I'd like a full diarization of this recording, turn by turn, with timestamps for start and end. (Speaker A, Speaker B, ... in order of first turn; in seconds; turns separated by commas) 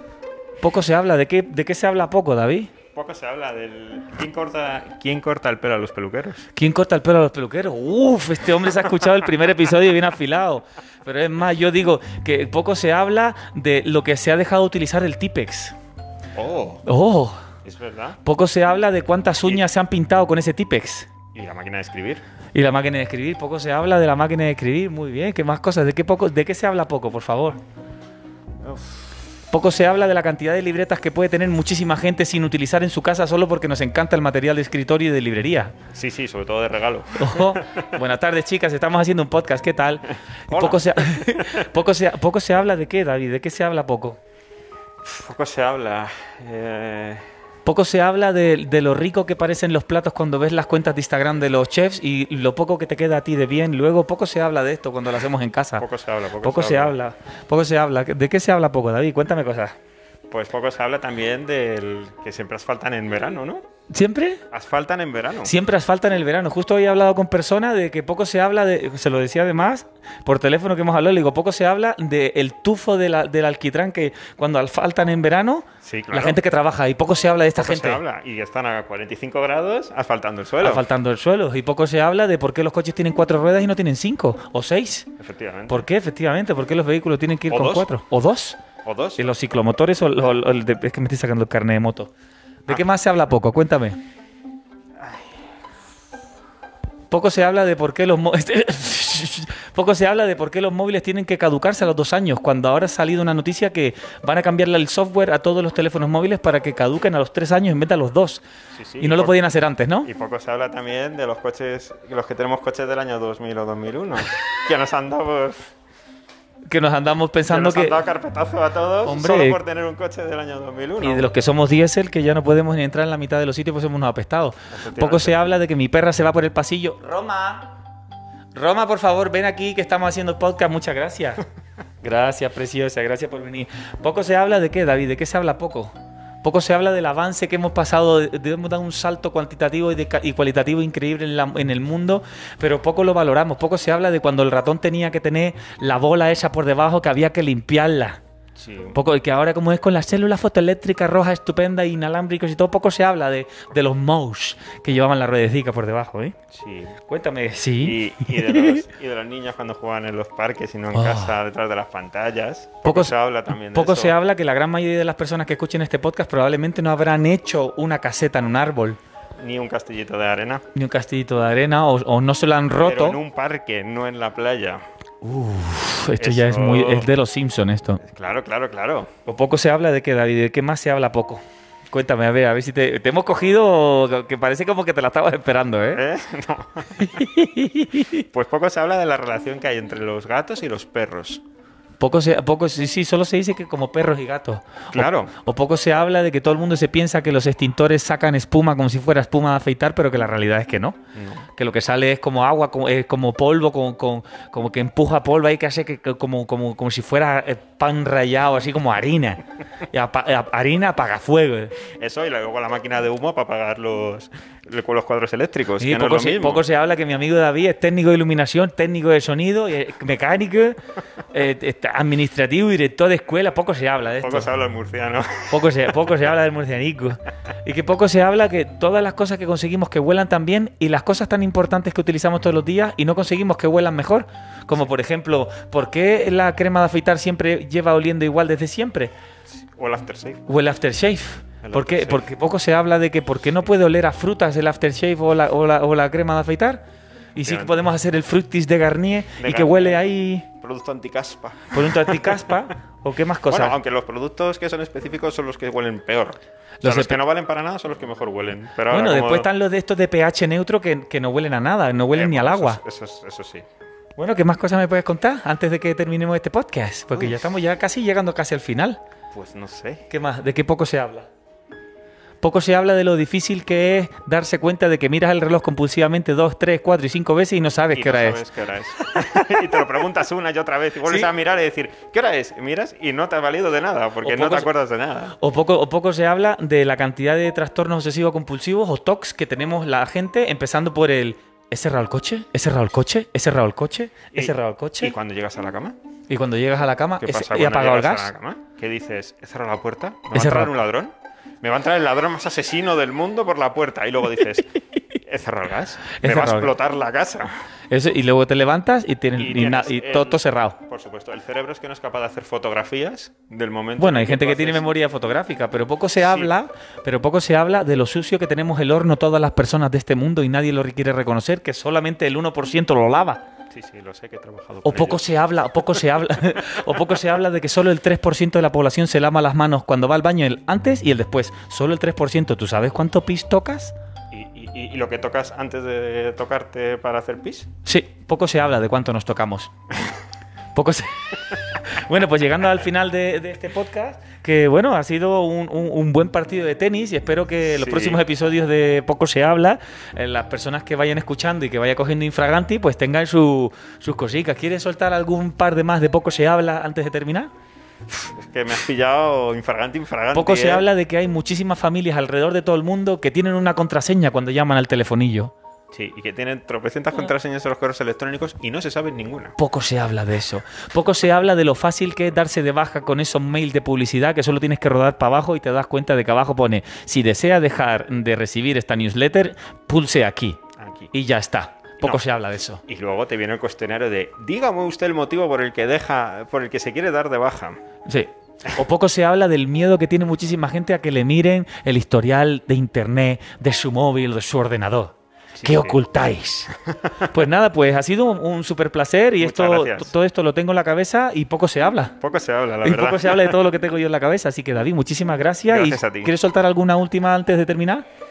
Speaker A: 0.6-2.7, Speaker B: 2.9-6.5, Speaker A: 6.5-15.7, Speaker B: 16.3-16.8, Speaker A: 16.9-17.4, Speaker B: 17.6-18.2, Speaker A: 18.2-21.1, Speaker B: 21.3-22.2, Speaker A: 22.5-27.6, Speaker A: 29.5-35.7, Speaker B: 35.9-37.9, Speaker A: 37.2-44.2, Speaker B: 40.5-41.6, Speaker B: 45.0-47.2, Speaker A: 47.6-55.8, Speaker B: 55.8-56.9, Speaker A: 56.4-59.7, Speaker B: 60.3-63.6, Speaker A: 63.9-64.4, Speaker B: 64.5-65.5, Speaker A: 65.4-78.0, Speaker B: 75.8-76.4, Speaker B: 77.6-80.8, Speaker A: 80.6-85.1, Speaker B: 85.2-85.8, Speaker A: 85.7-88.6, Speaker B: 87.5-87.9, Speaker B: 88.8-89.2, Speaker A: 89.2-92.1, Speaker A: 92.7-94.0, Speaker B: 95.0-95.3, Speaker A: 97.1-108.4, Speaker B: 108.7-109.4, Speaker A: 109.0-110.1, Speaker B: 110.0-115.7, Speaker A: 116.7-118.0, Speaker B: 117.5-121.3, Speaker A: 119.0-119.6, Speaker A: 121.0-127.7, Speaker B: 124.7-125.3, Speaker A: 128.5-131.4, Speaker A: 132.0-148.2, Speaker B: 148.6-149.0, Speaker A: 148.9-156.3, Speaker B: 156.5-156.9, Speaker A: 157.1-158.8, Speaker B: 157.8-164.1, Speaker A: 160.9-161.3, Speaker A: 162.8-169.0, Speaker B: 169.4-170.6, Speaker A: 170.7-173.2, Speaker B: 172.8-174.8, Speaker A: 175.2-178.0, Speaker B: 176.2-177.1, Speaker B: 178.0-179.1, Speaker A: 179.2-181.4, Speaker A: 181.9-186.0, Speaker B: 185.9-187.2, Speaker A: 187.1-188.2, Speaker B: 188.3-191.4, Speaker A: 192.0-201.0, Speaker B: 194.9-195.3, Speaker B: 201.1-201.4, Speaker A: 201.5-211.7, Speaker B: 212.0-216.7, Speaker A: 215.8-220.8, Speaker A: 221.3-224.5, Speaker B: 224.2-225.7, Speaker A: 225.5-239.1, Speaker B: 239.8-240.4, Speaker A: 240.5-246.8, Speaker B: 241.6-242.3, Speaker A: 247.3-250.5, Speaker B: 247.4-247.8, Speaker B: 249.4-250.0, Speaker B: 250.6-252.4, Speaker A: 251.7-253.8, Speaker B: 253.5-259.5, Speaker A: 256.8-257.2, Speaker A: 258.9-262.8, Speaker B: 262.1-263.6, Speaker A: 264.2-269.0, Speaker B: 267.1-267.4, Speaker B: 269.3-270.1, Speaker A: 270.1-271.3, Speaker A: 272.4-278.4, Speaker B: 277.9-285.4, Speaker A: 284.2-284.7, Speaker A: 285.4-295.1, Speaker B: 294.3-295.9, Speaker A: 296.3-298.3, Speaker B: 297.2-304.7, Speaker A: 300.3-300.7, Speaker B: 305.2-307.5, Speaker A: 306.2-306.7, Speaker A: 307.9-310.8, Speaker B: 309.4-314.9, Speaker A: 314.0-323.4, Speaker B: 316.2-316.5, Speaker B: 323.7-325.2, Speaker A: 324.9-333.9, Speaker B: 334.3-337.7, Speaker A: 337.8-339.7, Speaker A: 340.7-357.5, Speaker B: 347.7-348.2, Speaker B: 358.1-360.9, Speaker A: 360.3-365.5, Speaker B: 365.9-369.5, Speaker A: 369.6-380.6, Speaker B: 380.8-381.1, Speaker A: 381.1-382.8, Speaker B: 382.9-387.8, Speaker A: 388.1-402.1, Speaker B: 395.5-396.0, Speaker B: 399.4-400.1, Speaker B: 402.2-403.6, Speaker A: 402.8-408.0, Speaker B: 405.7-406.3